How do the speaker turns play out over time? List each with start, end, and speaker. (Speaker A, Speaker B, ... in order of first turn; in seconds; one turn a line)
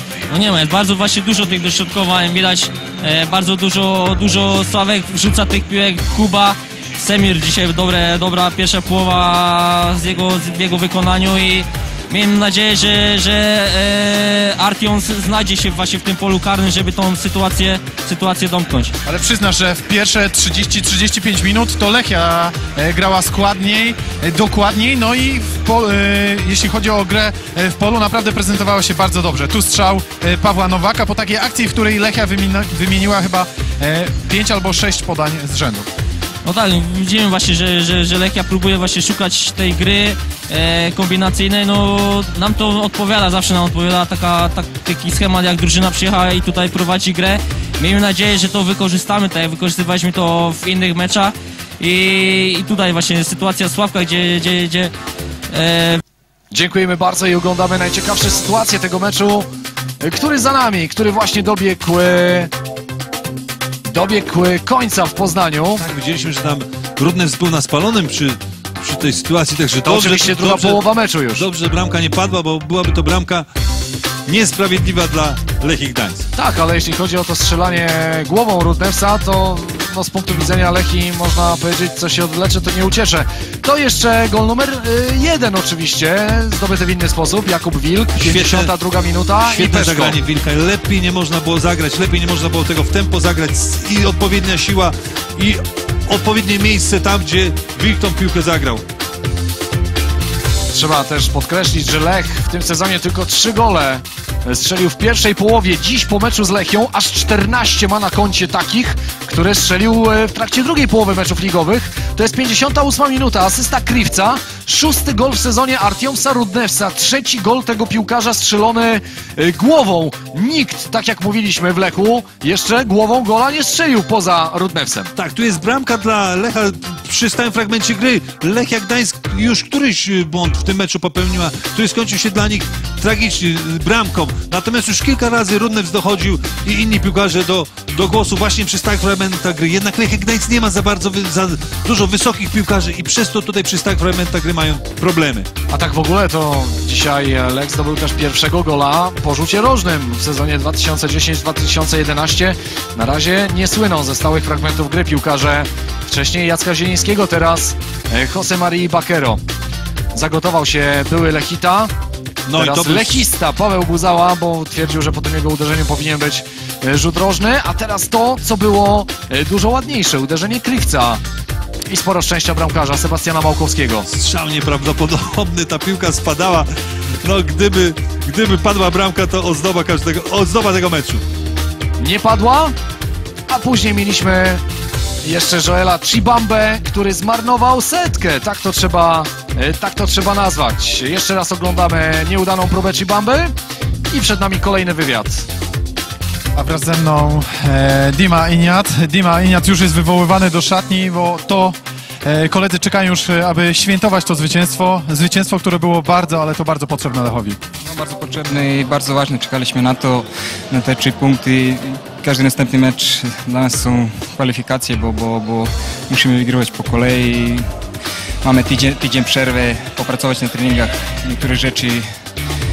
Speaker A: 0.3-18.9
Speaker B: 19.1-35.9
Speaker A: 36.5-54.9
Speaker A: 55.5-56.0
Speaker C: 56.5-59.5
Speaker C: 60.0-62.5
Speaker C: 63.9-65.8
Speaker D: 65.8-73.5
Speaker C: 69.8-71.5
Speaker D: 74.3-76.3
Speaker C: 76.3-90.2
Speaker D: 88.2-88.7
Speaker D: 89.4-98.8
Speaker C: 100.7-125.1
Speaker D: 125.2-145.5
Speaker C: 145.7-159.4
Speaker C: 160.1-161.9
Speaker D: 162.5-163.2
Speaker C: 162.6-171.2
Speaker C: 171.9-174.1
Speaker D: 174.1-176.7
Speaker D: 177.2-181.2
Speaker C: 182.0-182.8
Speaker C: 183.5-184.6
Speaker C: 185.2-193.5
Speaker C: 194.1-195.5
Speaker B: 196.6-207.6
Speaker E: 207.8-217.7
Speaker E: 218.4-222.1